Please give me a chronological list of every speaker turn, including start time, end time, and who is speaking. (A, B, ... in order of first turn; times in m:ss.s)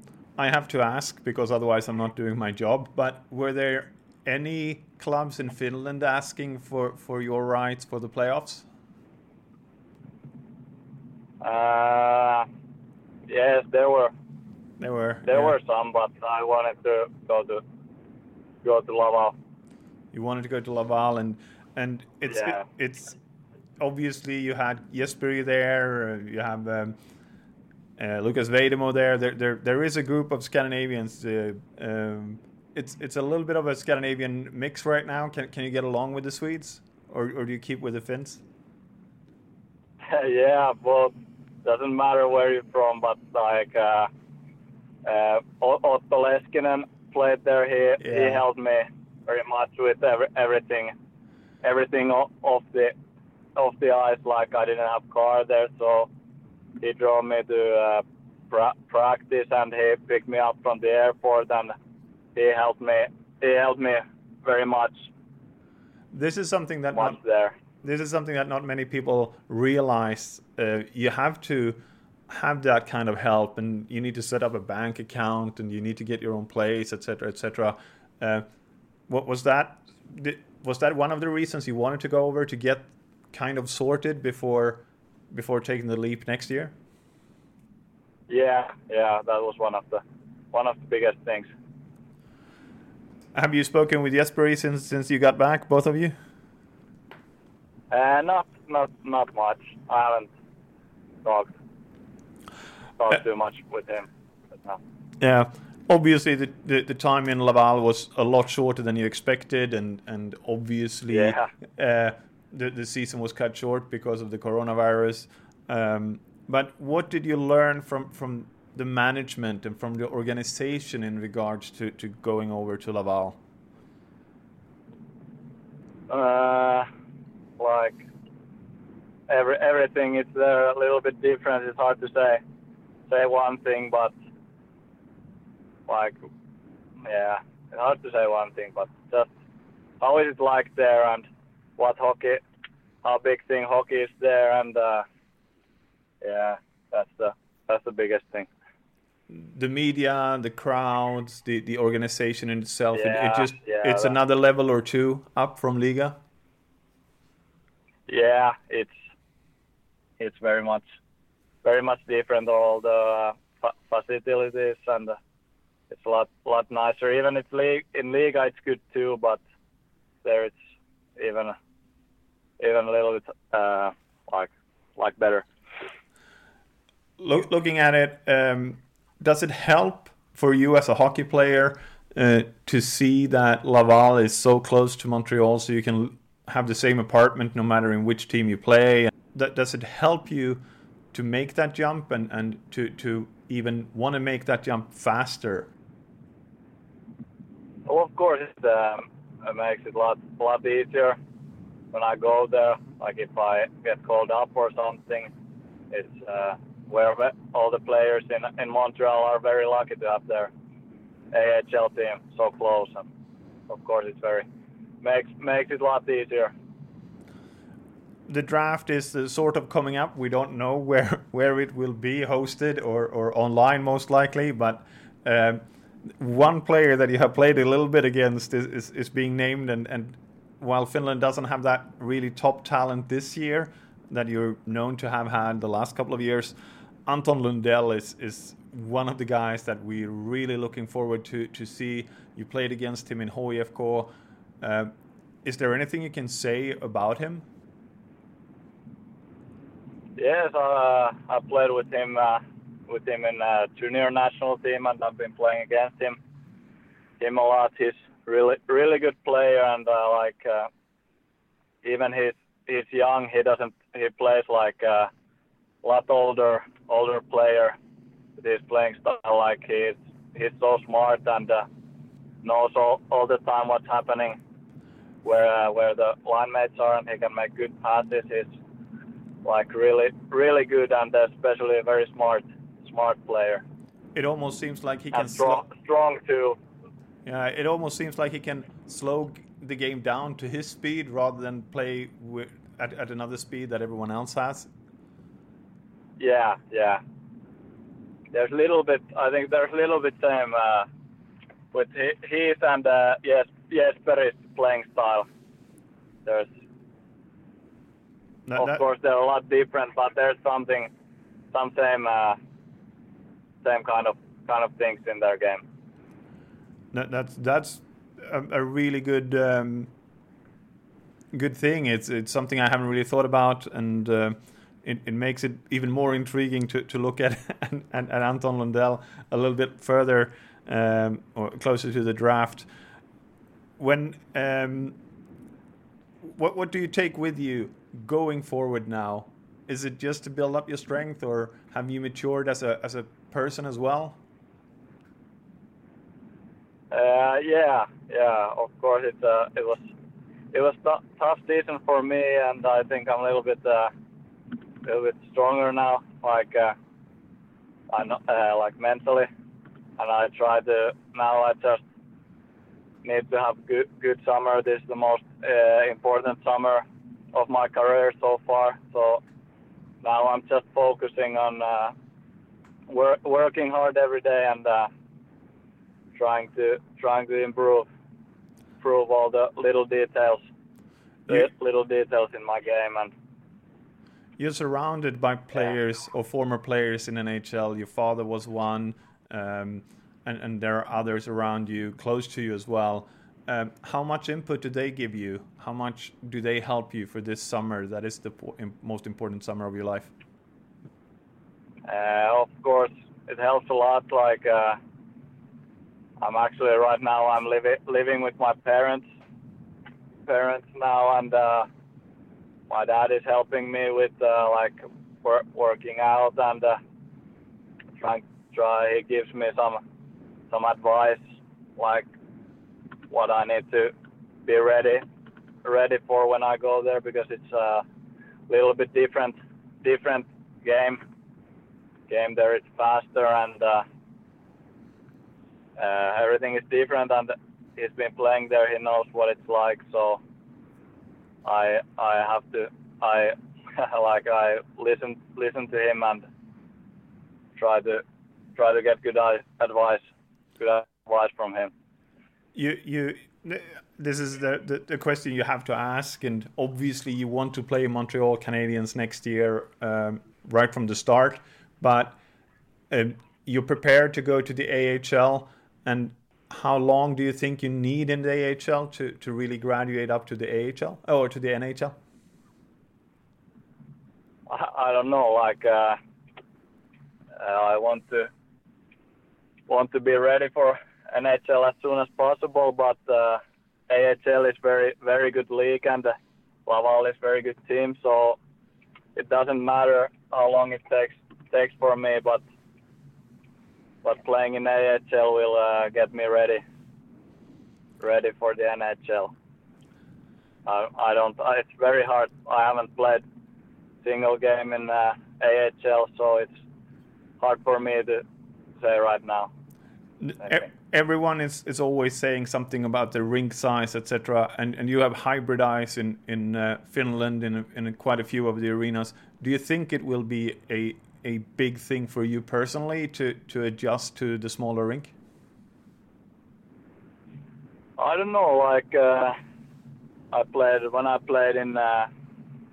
0:00.4-0:08.7 A
0:11.4-0:12.5 B
0:13.3-0:14.1 B
0:14.8-0:15.6 A
0:15.3-0:17.6 B
0:18.6-0:19.4 B
0:20.1-0:23.2 A
0:22.3-0:22.6 B
0:23.8-0:27.0 A
0:28.0-0:38.4 A
0:40.1-0:41.1 B
0:41.6-0:44.1 B
0:45.1-0:50.9 B
0:48.0-0:48.4 A
0:51.6-0:52.9 B
0:53.6-0:56.1 B
0:56.8-1:01.7 B
1:02.4-1:05.1 B
1:06.1-1:07.2 A
1:07.0-1:07.6 B
1:07.8-1:11.8 A
1:12.3-1:18.4 A
1:19.1-1:26.7 A
1:28.3-1:31.5 B
1:33.4-1:36.1 A
1:37.9-1:40.3 B
1:41.2-1:41.5 B
1:43.0-1:44.1 B
1:45.2-2:03.4 A
1:51.1-1:51.5 B
2:06.1-2:06.8 B
2:07.6-2:08.0 B
2:09.3-2:12.4 B
2:13.1-2:14.1 B
2:15.9-2:16.2 B
2:17.0-2:19.3 B
2:20.0-2:22.4 B
2:23.0-2:25.0 B
2:26.2-2:28.5 B
2:29.3-2:36.2 A
2:32.9-2:34.2 B
2:38.1-2:39.0 B
2:40.2-2:40.9 B
2:41.6-2:45.2 B
2:45.9-2:49.4 B
2:50.2-2:50.6 B
2:51.2-2:51.5 B
2:52.6-2:55.5 B
2:57.2-3:10.6 A
3:11.1-3:15.7 A
3:17.9-3:21.2 B
3:21.9-3:25.3 B
3:25.9-3:30.5 B
3:31.3-3:33.1 B
3:33.7-3:34.5 B
3:35.0-3:36.5 B
3:38.3-3:45.6 A
3:46.2-3:56.6 A
3:57.1-4:04.1 A
4:04.6-4:04.9 A
4:05.4-4:07.5 A
4:10.2-4:16.2 B
4:17.2-4:20.7 B
4:21.8-4:25.1 B
4:25.8-4:27.8 B
4:28.4-4:31.7 B
4:32.4-4:34.4 B
4:35.2-4:38.5 B
4:39.4-4:43.6 B
4:44.2-4:45.7 A
4:45.1-4:46.6 B
4:47.2-4:54.7 A
4:56.2-4:57.0 B
4:58.3-5:00.9 B
5:01.7-5:05.3 B
5:06.2-5:06.5 B
5:08.5-5:08.8 A
5:08.6-5:10.9 B
5:11.5-5:12.4 B
5:13.6-5:15.6 B
5:16.9-5:19.9 A
5:21.3-5:32.7 A
5:33.8-5:35.0 A
5:36.2-5:44.2 A
5:46.9-5:49.9 B
5:50.5-5:53.9 B
5:54.8-5:56.8 B
5:57.9-5:59.3 B
6:00.0-6:01.8 B
6:03.0-6:09.2 B
6:10.0-6:11.9 B
6:12.9-6:14.9 B
6:16.2-6:17.9 B
6:18.8-6:20.4 B
6:21.3-6:23.1 B
6:24.4-6:40.1 A
6:41.9-6:44.8 B
6:46.2-6:49.0 B
6:50.2-6:51.7 B
6:52.7-6:56.8 B
6:58.0-6:59.8 B
7:00.5-7:01.2 B
7:01.8-7:02.1 B
7:03.1-7:03.9 B
7:04.5-7:05.0 B
7:05.6-7:07.8 B
7:08.5-7:11.0 B
7:12.1-7:13.8 B
7:15.8-7:20.2 B
7:21.4-7:26.2 B
7:27.6-7:28.0 B
7:28.6-7:30.0 B
7:30.6-7:31.7 B
7:32.6-7:42.2 A
7:42.9-7:52.0 A
7:54.5-7:56.0 B
7:57.4-7:58.3 B
7:59.7-8:06.1 B
8:06.7-8:08.4 B
8:09.2-8:12.4 B
8:14.0-8:16.6 B
8:18.0-8:19.3 B
8:20.7-8:23.2 B
8:24.0-8:26.6 B
8:27.4-8:28.2 B
8:28.8-8:29.5 B
8:30.2-8:45.1 A
8:48.0-8:49.4 B
8:50.3-8:52.1 B